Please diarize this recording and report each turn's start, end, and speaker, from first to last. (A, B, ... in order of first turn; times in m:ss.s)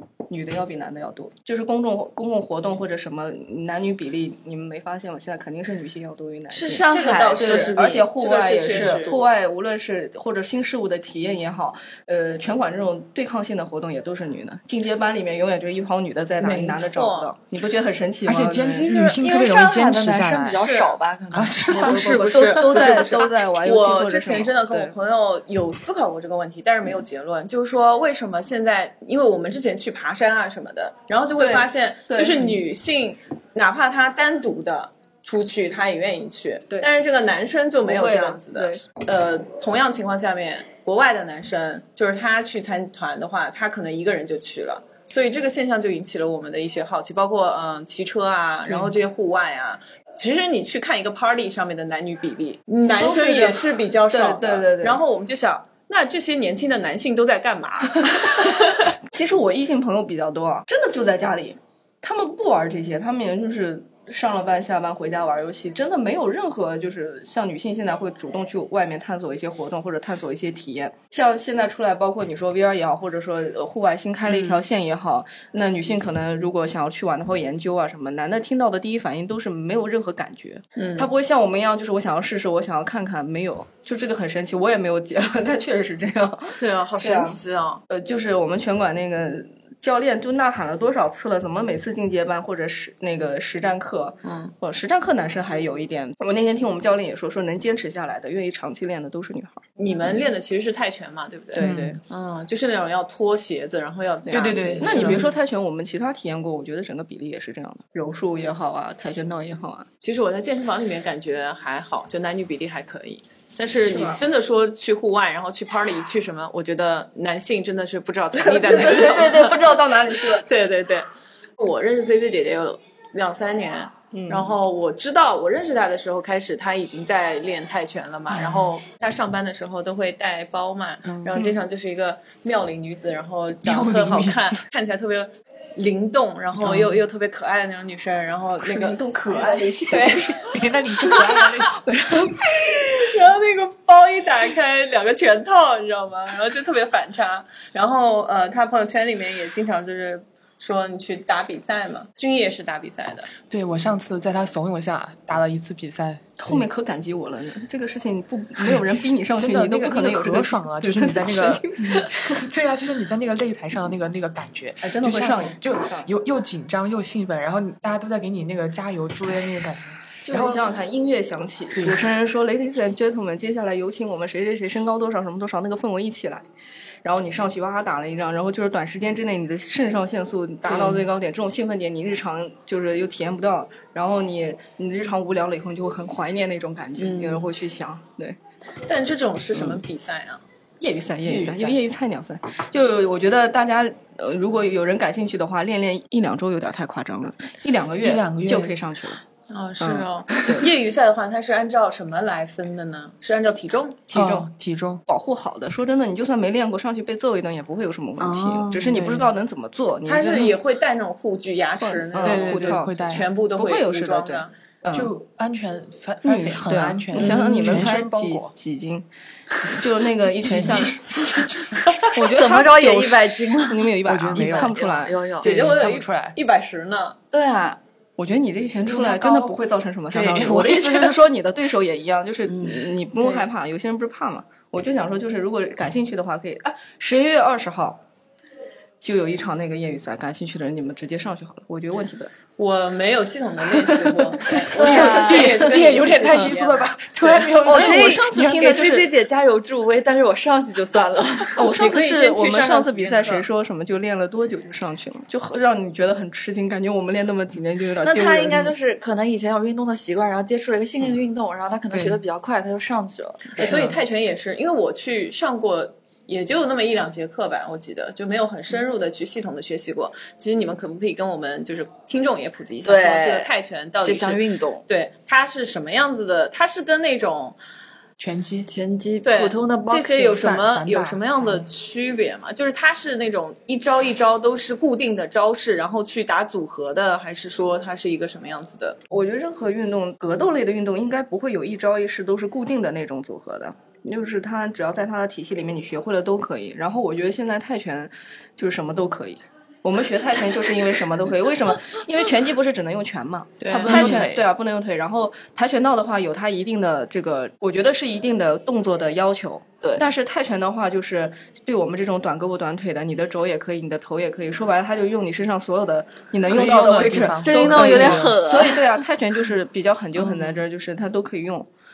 0:00.3-0:18.9 A
0:06.5-0:09.2 B
0:06.9-0:09.1 C
0:16.4-0:17.3 C
0:18.2-0:20.6 D
0:18.8-0:19.2 C
0:18.9-0:22.2 B
0:20.6-0:20.9 C
0:21.3-0:22.1 D
0:21.7-0:58.8 C
0:21.7-0:24.9 A
0:31.4-0:32.6 A
0:37.8-0:38.8 A
0:52.8-0:55.0 A
0:58.0-0:58.6 A
0:59.1-1:39.6 A
1:14.2-1:14.6 B
1:20.8-1:21.1 C
1:26.6-1:27.8 C
1:34.2-1:34.5 C
1:39.8-1:45.1 C
1:41.5-1:42.0 A
1:41.6-1:42.0 D
1:44.2-1:49.9 A
1:44.3-1:45.3 D
1:45.0-1:45.3 B
1:50.0-2:19.0 C
1:53.9-1:54.2 A
1:58.3-2:00.4 A
2:04.1-2:04.5 A
2:08.3-2:08.7 D
2:11.0-2:11.3 D
2:13.6-2:14.6 D
2:16.6-2:17.0 D
2:18.6-2:20.5 A
2:19.2-2:21.8 D
2:19.8-2:20.3 C
2:21.0-2:22.5 A
2:22.4-2:33.3 C
2:33.5-2:36.7 D
2:36.4-2:42.4 A
2:38.6-2:50.6 D
2:44.8-2:46.1 A
2:50.2-2:56.4 A
2:51.7-2:52.1 D
2:57.0-3:08.4 A
3:00.6-3:01.0 D
3:07.0-3:07.5 B
3:08.8-3:10.4 C
3:10.8-3:19.2 A
3:11.2-3:11.8 D
3:18.0-3:18.8 D
3:19.5-3:24.0 C
3:19.8-3:20.7 A
3:24.1-3:24.5 A
3:24.1-3:25.0 D
3:25.1-3:30.6 A
3:28.2-3:29.3 B
3:30.0-3:34.5 C
3:31.8-3:35.1 A
3:32.2-3:33.3 D
3:34.9-3:38.5 D
3:36.2-3:39.0 A
3:37.1-3:37.8 B
3:39.7-3:41.0 A
3:40.3-3:42.2 D
3:42.1-3:45.2 A
3:42.3-3:45.5 B
3:44.0-3:46.4 D
3:45.4-3:47.2 C
3:47.3-3:47.8 B
3:48.2-3:58.0 A
3:48.9-3:49.5 D
3:50.1-3:51.1 D
3:52.5-3:53.3 B
3:59.0-4:02.3 A
4:02.6-4:07.5 C
4:03.8-4:05.4 A
4:04.7-4:08.7 D
4:04.7-4:05.6 B
4:07.6-4:09.1 A
4:07.6-4:11.7 B
4:11.6-4:18.7 A
4:11.7-4:13.4 C
4:18.0-4:23.7 B
4:21.9-4:22.2 D
4:23.5-4:37.6 C
4:23.6-4:23.9 A
4:32.8-4:33.5 B
4:34.0-4:34.8 B
4:38.2-4:38.7 D
4:38.7-4:40.5 B
4:39.2-4:49.0 C
4:40.3-4:41.7 D
4:49.1-5:21.7 A
5:03.6-5:04.2 C
5:03.7-5:04.5 D
5:16.5-5:18.4 D
5:17.4-5:19.0 B
5:20.2-5:20.6 B